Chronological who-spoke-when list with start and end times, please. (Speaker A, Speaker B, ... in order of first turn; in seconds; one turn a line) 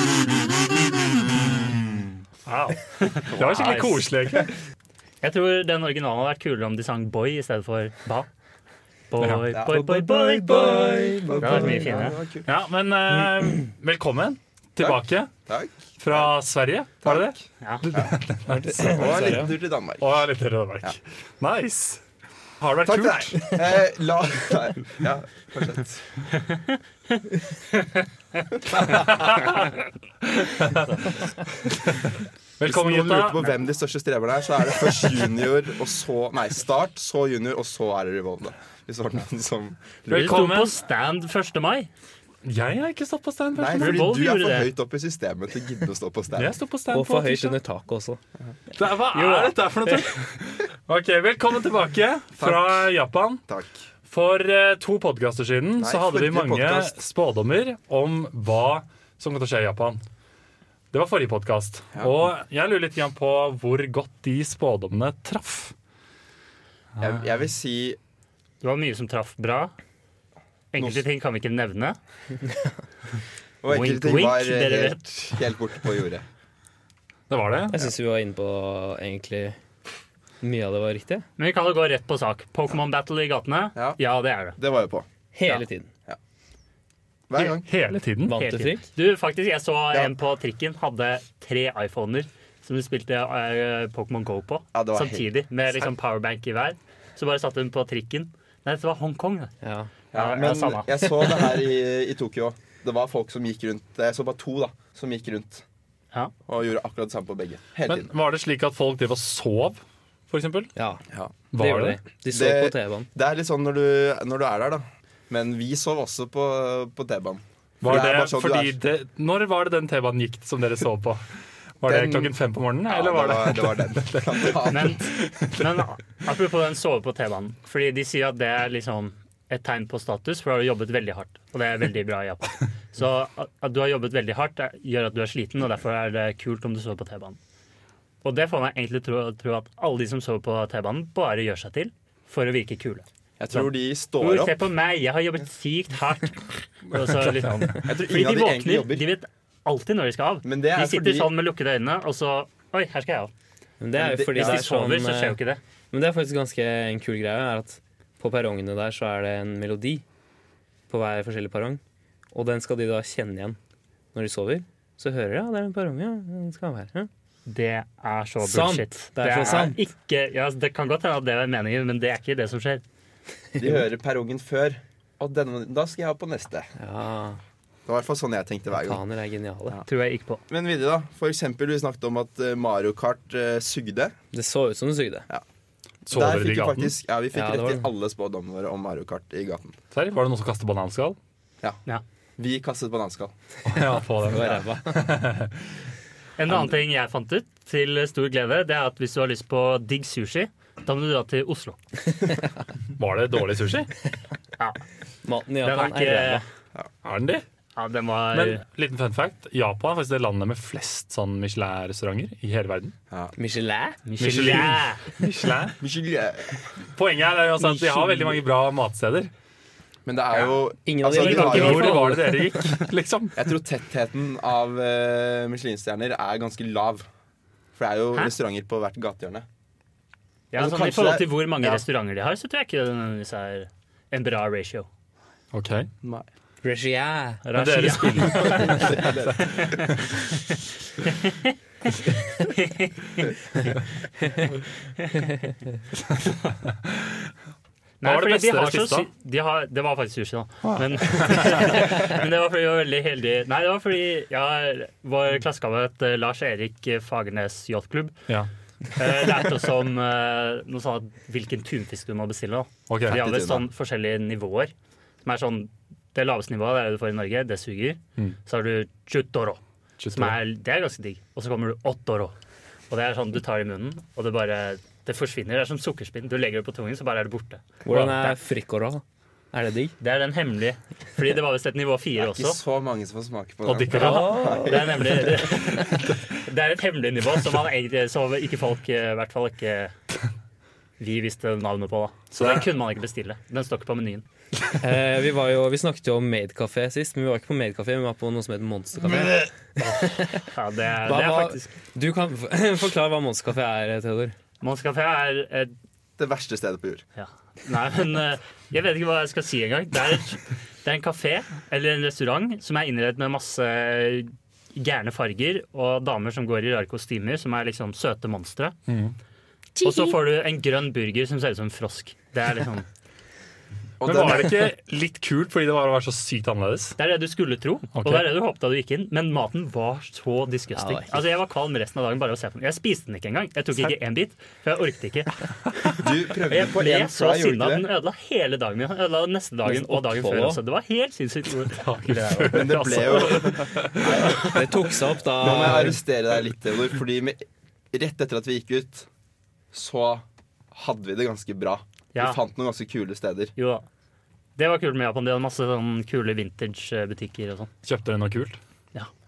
Speaker A: 2.5-2.8
Speaker B: 2.9-4.0
Speaker A: 3.3-4.5
Speaker B: 5.2-8.3
Speaker B: 9.1-12.2
Speaker A: 9.2-9.5
Speaker C: 9.5-12.4
Speaker D: 10.4-12.1
Speaker A: 12.4-15.3
Speaker C: 14.8-16.3
Speaker A: 16.0-22.0
Speaker C: 17.0-18.1
Speaker D: 18.6-19.5
Speaker C: 18.8-20.1
Speaker A: 22.6-23.6
Speaker C: 22.8-26.1
Speaker C: 28.7-29.2
Speaker A: 28.9-29.7
Speaker A: 30.2-30.9
Speaker A: 31.7-33.5
Speaker C: 32.6-40.5
Speaker A: 40.1-40.7
Speaker B: 40.1-41.9
Speaker A: 42.4-44.1
Speaker C: 43.5-46.5
Speaker B: 43.8-44.7
Speaker A: 46.4-47.6
Speaker D: 46.9-48.2
Speaker A: 48.7-53.4
Speaker B: 49.1-50.0
Speaker C: 52.4-52.9
Speaker C: 53.5-53.7
Speaker A: 54.1-60.0
Speaker C: 55.8-57.0
Speaker A: 60.9-65.7
Speaker C: 67.0-68.0
Speaker B: 68.6-69.7
Speaker B: 70.7-72.0
Speaker C: 70.8-71.0
Speaker C: 73.6-76.2
Speaker B: 73.7-75.4
Speaker A: 77.3-77.9
Speaker D: 77.7-79.6
Speaker D: 80.4-81.2
Speaker B: 81.4-84.5
Speaker C: 84.5-85.1
Speaker D: 85.3-85.9
Speaker C: 87.3-87.7
Speaker A: 87.4-88.4
Speaker D: 88.2-88.9
Speaker B: 88.4-99.5
Speaker C: 94.7-95.3
Speaker D: 99.6-99.9
Speaker C: 100.1-105.6
Speaker B: 100.1-100.9
Speaker C: 106.5-108.1
Speaker A: 107.8-110.7
Speaker D: 110.8-111.0
Speaker A: 111.5-112.0
Speaker D: 111.5-113.1
Speaker C: 112.3-118.8
Speaker A: 117.8-121.2
Speaker A: 121.8-125.6
Speaker C: 121.8-122.3
Speaker C: 122.9-125.0
Speaker B: 124.7-125.0
Speaker B: 125.6-137.4
Speaker B: 138.2-153.3
Speaker C: 143.4-144.7
Speaker C: 147.8-149.1
Speaker C: 150.4-151.3
Speaker D: 153.8-155.4
Speaker C: 153.9-154.7
Speaker B: 154.3-155.6
Speaker D: 155.9-160.0
Speaker D: 160.9-161.8
Speaker D: 162.3-163.6
Speaker D: 164.1-167.1
Speaker B: 167.4-172.8
Speaker D: 168.4-169.8
Speaker C: 169.3-169.7
Speaker C: 173.6-176.7
Speaker D: 176.8-177.4
Speaker C: 177.8-179.0
Speaker D: 178.7-179.8
Speaker B: 179.8-180.4
Speaker C: 180.5-184.2
Speaker D: 184.3-185.2
Speaker A: 186.1-186.9
Speaker C: 186.1-189.8
Speaker D: 187.3-187.9
Speaker A: 189.9-191.2
Speaker C: 192.4-193.3
Speaker A: 193.7-195.6
Speaker D: 194.2-195.0
Speaker C: 194.3-194.6
Speaker B: 196.4-201.8
Speaker A: 202.9-203.9
Speaker D: 205.2-206.4
Speaker B: 205.6-206.4
Speaker A: 207.0-207.4
Speaker B: 207.8-208.6
Speaker A: 208.3-212.9
Speaker D: 213.4-214.8
Speaker B: 214.1-215.0
Speaker A: 214.2-215.8
Speaker C: 215.8-216.6
Speaker A: 216.9-219.3
Speaker C: 220.1-222.2
Speaker D: 220.8-222.6
Speaker A: 221.1-223.4
Speaker B: 221.6-222.0
Speaker C: 223.3-227.1
Speaker C: 227.8-229.4
Speaker B: 230.5-234.9
Speaker C: 230.5-231.8
Speaker A: 235.5-235.9
Speaker D: 236.6-238.9
Speaker B: 237.4-240.2
Speaker A: 237.5-238.9
Speaker C: 238.3-239.8
Speaker B: 241.0-243.3
Speaker A: 246.1-247.3
Speaker B: 248.0-258.2
Speaker A: 248.0-249.1
Speaker A: 250.6-251.7
Speaker B: 258.9-264.7
Speaker A: 262.9-263.2
Speaker C: 263.1-263.7
Speaker B: 265.2-269.6
Speaker A: 270.0-270.4
Speaker B: 270.1-272.3
Speaker B: 272.9-278.4
Speaker D: 277.8-279.9
Speaker A: 277.9-278.2
Speaker B: 280.0-282.6
Speaker C: 282.1-285.0
Speaker A: 283.6-284.5
Speaker D: 283.9-285.4
Speaker B: 283.9-289.9
Speaker B: 291.0-294.2
Speaker A: 292.4-292.6
Speaker D: 294.8-300.5
Speaker A: 299.1-299.4
Speaker B: 299.8-301.7
Speaker D: 301.0-304.3
Speaker B: 304.6-305.7
Speaker C: 306.2-307.0
Speaker B: 307.2-318.8
Speaker A: 318.9-319.1
Speaker D: 319.8-320.1
Speaker B: 319.8-322.9
Speaker C: 324.0-324.7
Speaker A: 324.0-327.0
Speaker B: 327.0-343.4
Speaker A: 327.9-328.3
Speaker D: 330.7-331.2
Speaker C: 335.9-337.9
Speaker D: 339.6-340.6
Speaker A: 341.7-344.6
Speaker C: 342.4-344.6
Speaker D: 344.4-346.0
Speaker C: 345.4-349.1
Speaker C: 349.7-353.5
Speaker B: 353.6-353.9
Speaker B: 354.6-357.7
Speaker A: 357.8-358.6